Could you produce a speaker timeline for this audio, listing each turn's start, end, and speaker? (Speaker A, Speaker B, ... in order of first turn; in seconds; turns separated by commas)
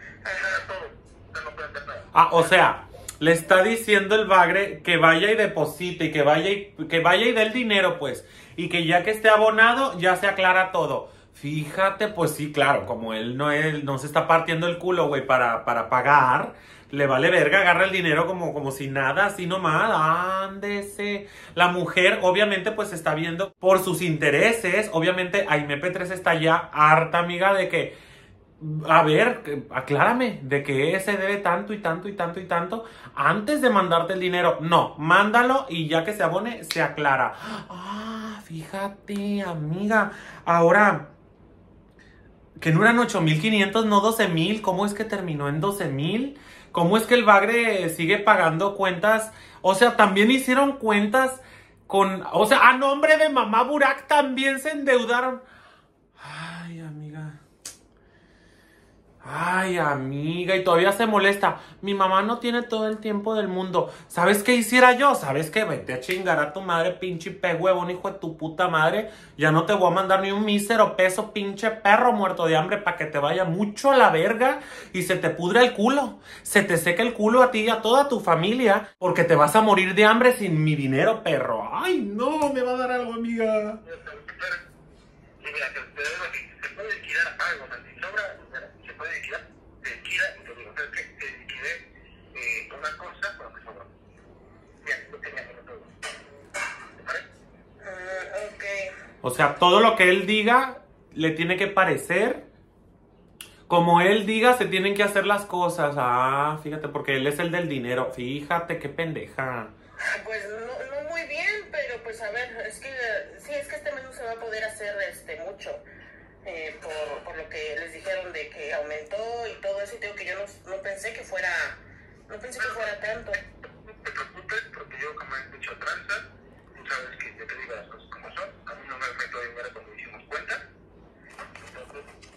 Speaker A: 0.2-0.6, Speaker B: 0.3-2.5, Speaker C: 2.1-27.9, Speaker C: 28.6-41.1, Speaker C: 42.6-55.4, Speaker C: 56.2-57.4, Speaker C: 59.2-83.8, Speaker B: 83.8-84.6, Speaker B: 85.4-93.9, Speaker B: 94.8-95.9, Speaker B: 97.0-97.3, Speaker A: 97.8-98.9, Speaker C: 99.2-102.5, Speaker C: 103.7-109.7, Speaker A: 110.0-115.8, Speaker A: 116.4-123.4, Speaker B: 123.6-130.6, Speaker B: 131.6-132.1